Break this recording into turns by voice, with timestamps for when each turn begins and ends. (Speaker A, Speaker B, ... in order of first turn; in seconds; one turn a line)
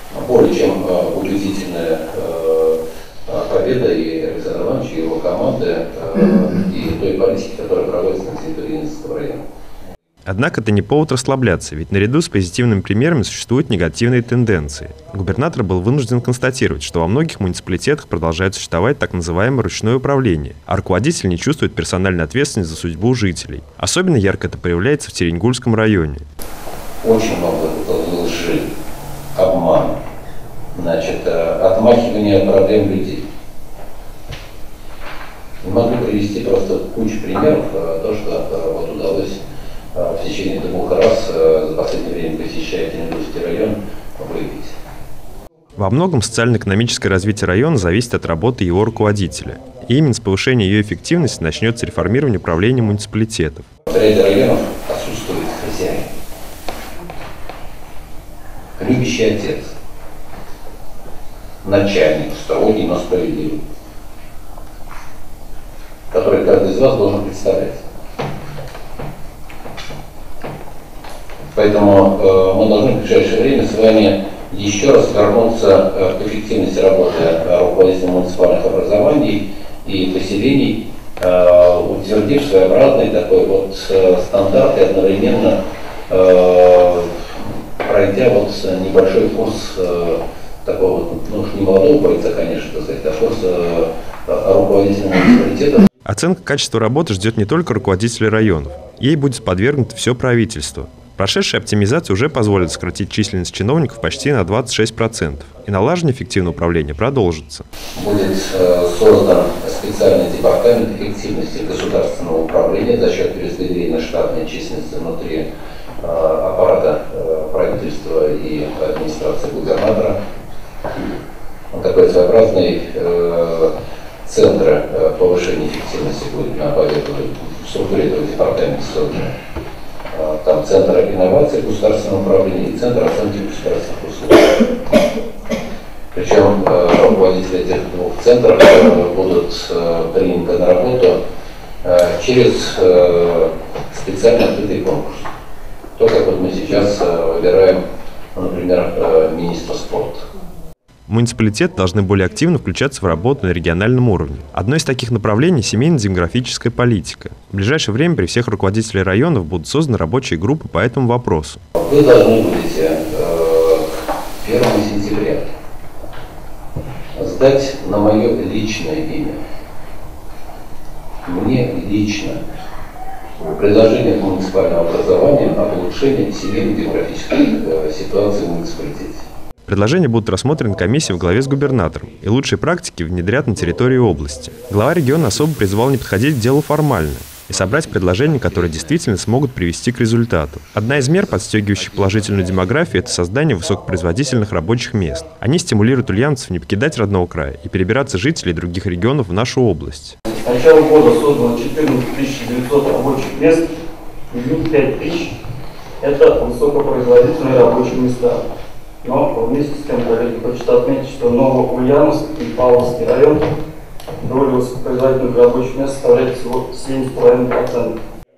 Speaker A: 0.1-9.4
Speaker B: 10.2-26.2
Speaker A: 27.0-28.6
Speaker A: 29.3-29.9
Speaker A: 30.7-33.2
Speaker A: 35.6-39.4
Speaker A: 39.9-44.7
Speaker B: 45.8-53.6
Speaker A: 53.9-56.1
Speaker A: 58.8-59.7
Speaker A: 61.6-63.6
Speaker A: 66.1-67.8
Speaker A: 71.5-87.1
Speaker A: 87.8-95.9
Speaker B: 96.0-107.7
Speaker A: 107.9-115.4
Speaker A: 116.0-120.2
Speaker A: 121.7-123.7
Speaker A: 124.2-129.3
Speaker A: 130.1-134.6
Speaker A: 136.1-141.2
Speaker A: 141.8-145.3
Speaker A: 146.0-147.8
Speaker A: 148.3-150.2
Speaker B: 151.1-161.6
Speaker A: 161.8-163.9
Speaker A: 164.4-165.4
Speaker A: 167.1-169.4
Speaker A: 171.2-172.4
Speaker A: 173.4-179.2
Speaker B: 179.7-200.1
Speaker C: 200.2-203.7
Speaker C: 204.3-205.3
Speaker C: 206.0-208.4
Speaker C: 209.0-213.4
Speaker C: 214.2-217.9